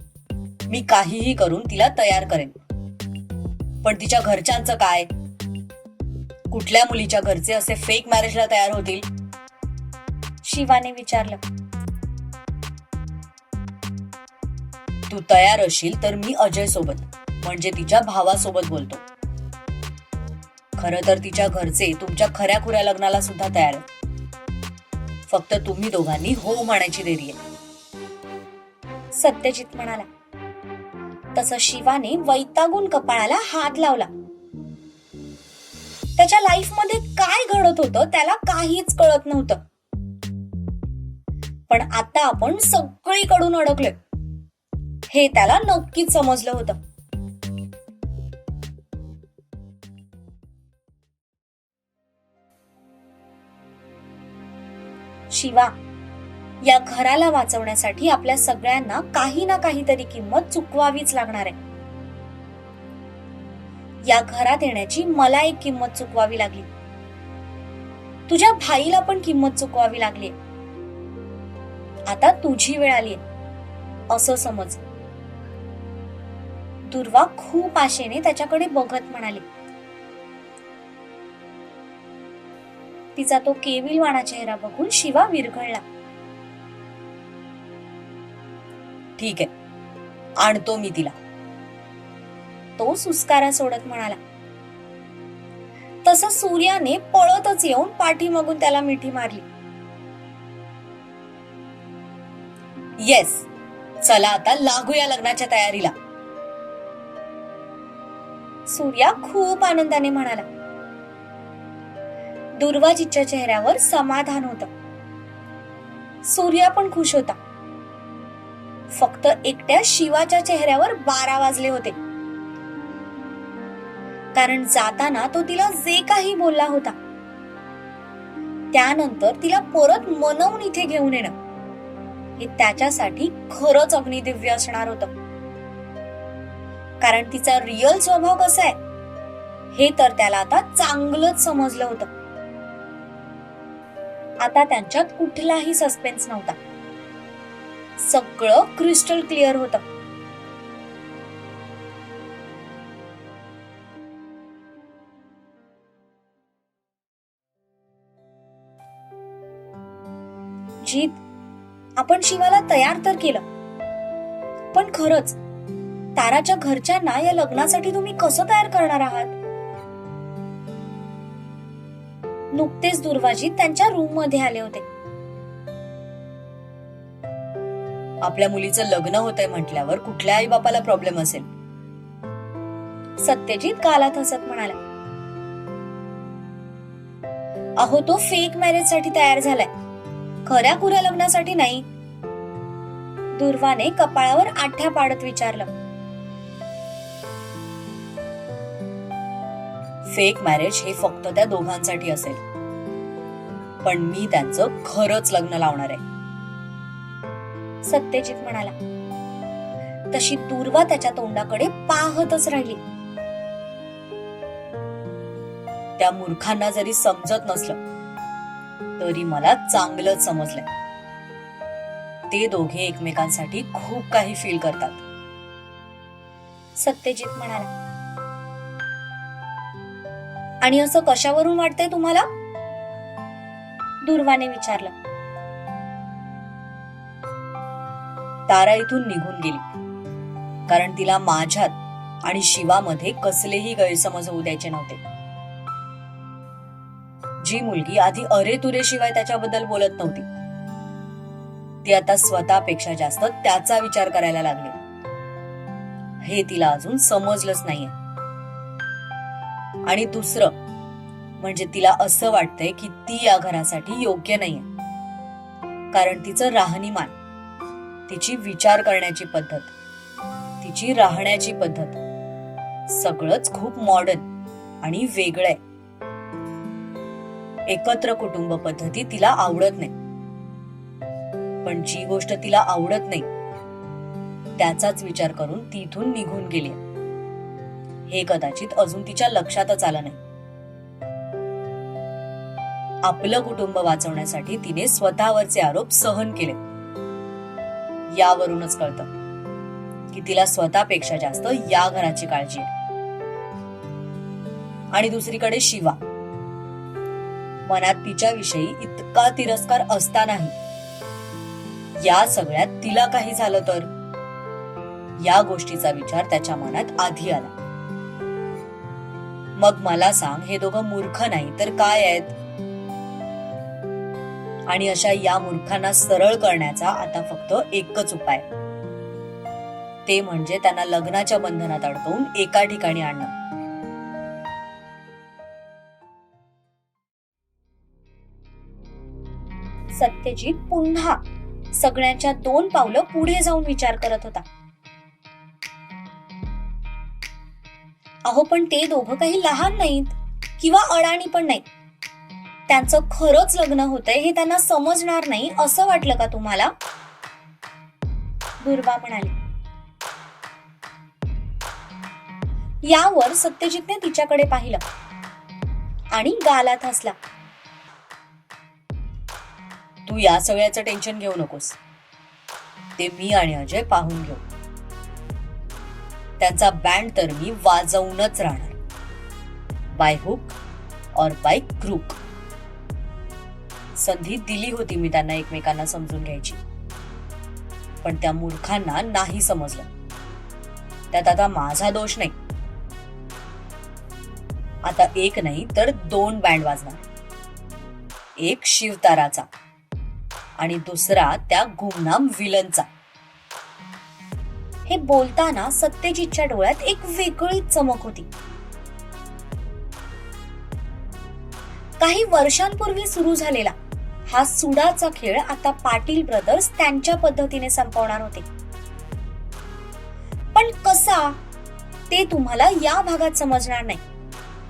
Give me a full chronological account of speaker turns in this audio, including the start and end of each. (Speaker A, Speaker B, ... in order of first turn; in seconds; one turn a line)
Speaker A: 0.7-2.5
Speaker A: 3.8-5.1
Speaker A: 6.5-9.1
Speaker B: 10.4-11.4
Speaker A: 15.1-19.0
Speaker A: 20.8-23.9
Speaker A: 25.3-27.4
Speaker B: 29.1-30.1
Speaker B: 31.4-34.1
Speaker B: 36.2-39.6
Speaker B: 41.7-44.0
Speaker B: 45.1-46.8
Speaker B: 55.3-55.7
Speaker B: 56.6-61.6
Speaker B: 64.1-66.7
Speaker B: 68.3-70.3
Speaker B: 72.1-73.2
Speaker B: 74.1-74.8
Speaker B: 76.9-79.5
Speaker B: 83.2-85.8
Speaker A: 89.2-89.5
Speaker A: 90.4-91.2
Speaker B: 92.8-94.2
Speaker B: 96.0-99.5
Speaker A: 103.0-103.5
Speaker A: 104.0-105.9
Speaker B: 108.7-110.5
Speaker B: 112.6-114.7
Speaker B: 116.2-117.4
Speaker B: 118.9-122.0
Speaker B: 124.3-127.0
Speaker B: 128.7-131.3
Speaker B: 132.4-135.1
Speaker B: 137.0-138.8
Speaker B: 139.7-142.1
Speaker B: 144.4-146.6
Speaker B: 148.0-149.8
Speaker B: 160.8-161.2
Speaker B: 162.0-163.4
Speaker B: 164.7-165.4
Speaker B: 166.2-169.4
Speaker B: 172.5-174.9
Speaker A: 178.2-181.5
Speaker B: 183.2-184.8
Speaker B: 187.8-189.7
Speaker B: 190.4-191.9
Speaker B: 193.3-195.7
Speaker A: 200.1-202.4
Speaker A: 203.8-206.0
Speaker B: 207.8-208.8
Speaker B: 210.1-212.8
Speaker A: 216.0-217.8
Speaker A: 219.0-220.7
Speaker A: 222.3-225.0
Speaker B: 226.8-227.7
Speaker B: 230.6-232.3
Speaker B: 234.1-234.9
Speaker A: 238.5-239.6
Speaker A: 240.7-245.0
Speaker A: 247.4-250.3
Speaker A: 251.8-254.8
Speaker A: 256.2-257.9
Speaker A: 259.9-260.5
Speaker A: 261.4-264.7
Speaker A: 265.9-267.1
Speaker A: 268.1-269.7
Speaker A: 270.6-272.0
Speaker A: 272.9-274.2
Speaker A: 274.8-275.6
Speaker A: 277.7-279.9
Speaker A: 281.6-283.3
Speaker A: 284.6-286.8
Speaker A: 288.1-290.2
Speaker A: 293.1-296.6
Speaker A: 298.1-299.1
Speaker A: 300.1-302.7
Speaker A: 304.9-306.0
Speaker A: 307.7-310.5
Speaker A: 312.0-313.9
Speaker A: 315.2-317.5
Speaker A: 319.6-322.4
Speaker A: 324.7-328.4
Speaker A: 330.1-333.3
Speaker B: 339.9-341.2
Speaker B: 341.7-344.4
Speaker B: 348.3-351.6
Speaker B: 352.7-356.7
Speaker B: 358.6-359.3
Speaker B: 362.8-364.8
Speaker B: 366.1-367.2
Speaker A: 370.1-371.8
Speaker A: 373.0-374.4
Speaker A: 376.4-378.8
Speaker A: 379.9-380.6
Speaker A: 381.1-382.2
Speaker A: 384.0-386.6
Speaker A: 388.0-389.9
Speaker A: 391.1-392.3
Speaker A: 394.9-397.1
Speaker A: 398.4-399.5
Speaker A: 400.6-402.9
Speaker B: 404.9-408.3
Speaker B: 412.0-413.8
Speaker B: 414.3-418.5
Speaker B: 420.6-421.4
Speaker B: 422.1-424.0